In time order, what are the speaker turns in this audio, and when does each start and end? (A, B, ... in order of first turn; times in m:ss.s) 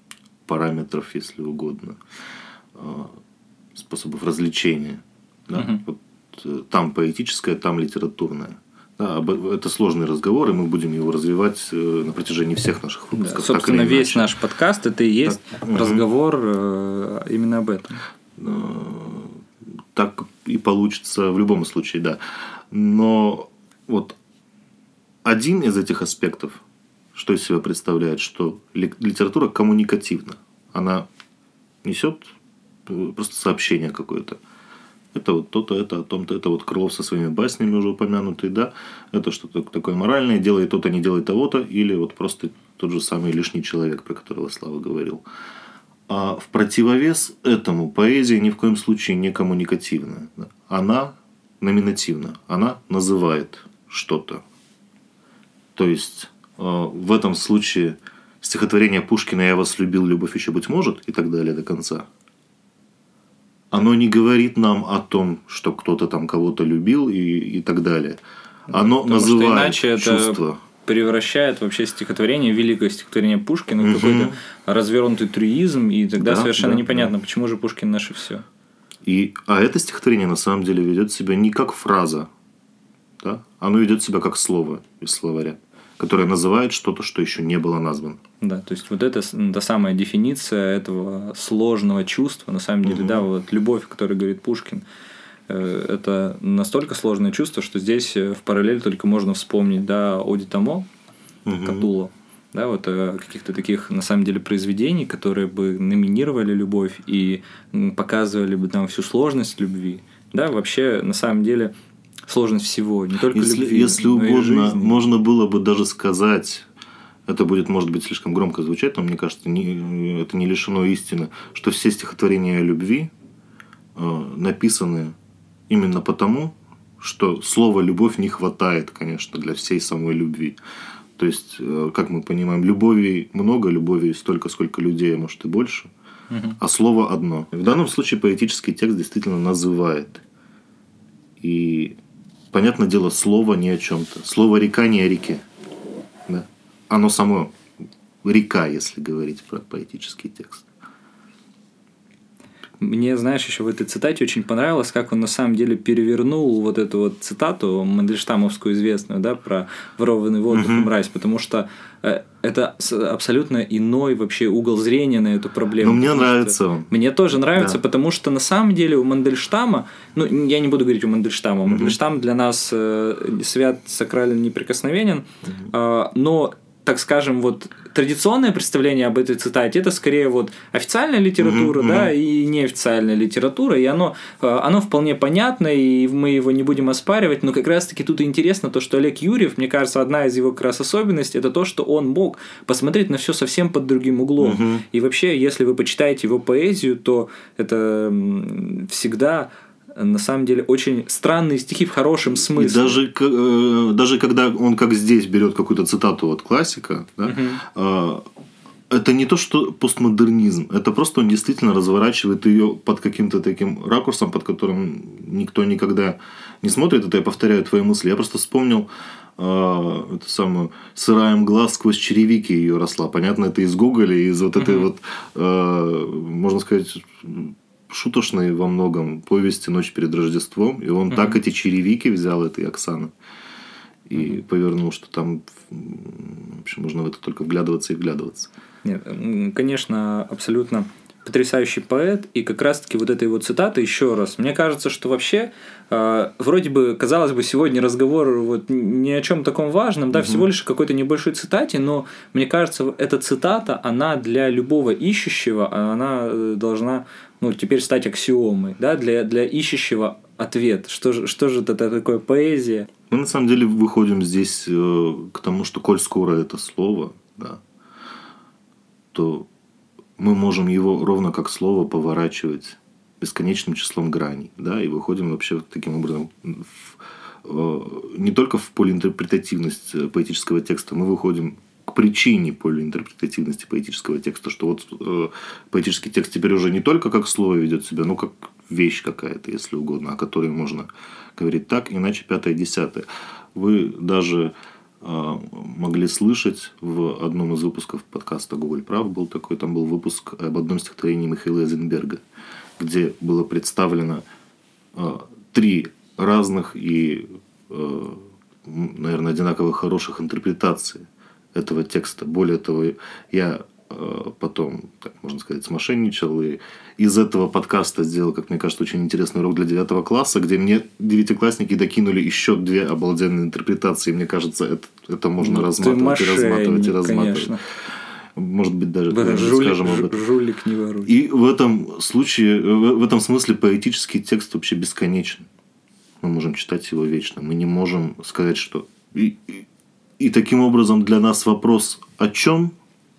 0:00.5-0:02.0 A
0:02.8-0:03.2 A
0:03.8-0:14.3 A
0:05.5-0:05.8 B
0:13.1-0:18.0 B
0:15.3-0:16.0 A
0:18.4-0:19.4 A
0:19.9-0:22.2 A
0:22.7-0:24.2 A
0:25.2-0:26.6 A
0:27.2-0:31.1 A
0:31.8-0:32.3 A
0:32.9-0:34.4 A
0:35.1-0:45.2 A
0:46.1-0:54.4 A
0:55.8-1:02.1 A
1:03.7-1:10.6 A
1:08.7-1:18.4 B
1:13.8-1:14.4 A
1:16.2-1:17.1 A
1:19.1-1:22.3 A
1:23.2-1:28.2 A
1:28.4-1:34.8 B
1:32.8-1:33.2 A
1:35.5-1:40.9 B
1:41.5-1:41.9 A
1:41.6-1:51.7 B
1:52.3-1:55.0 B
1:53.3-1:56.7 A
1:57.3-2:03.1 A
2:04.0-2:05.2 A
2:05.7-2:10.6 A
2:11.2-2:15.9 A
2:16.3-2:16.6 B
2:16.6-2:20.2 A
2:21.4-2:22.0 A
2:22.5-2:25.4 A
2:26.3-2:27.5 A
2:28.2-2:30.7 A
2:32.8-3:23.0 B
2:40.5-2:40.9 A
2:45.8-2:46.9 A
2:47.5-2:47.8 A
2:51.7-2:52.0 A
3:01.4-3:02.1 A
3:14.4-3:14.8 A
3:22.3-3:28.2 A
3:27.2-3:27.6 B
3:28.9-3:53.1 A
3:44.6-3:44.9 B
3:51.1-3:51.4 B
3:54.1-3:58.5 A
3:58.8-4:22.9 B
4:10.1-4:10.5 A
4:23.1-4:27.6 A
4:29.1-4:29.5 A
4:30.2-5:02.2 A
5:02.8-5:04.2 A
5:05.0-5:27.6 A
5:25.4-5:27.6 B
5:28.4-5:30.2 A
5:29.1-5:31.1 B
5:31.0-5:35.5 A
5:36.2-5:39.6 A
5:40.2-5:42.8 A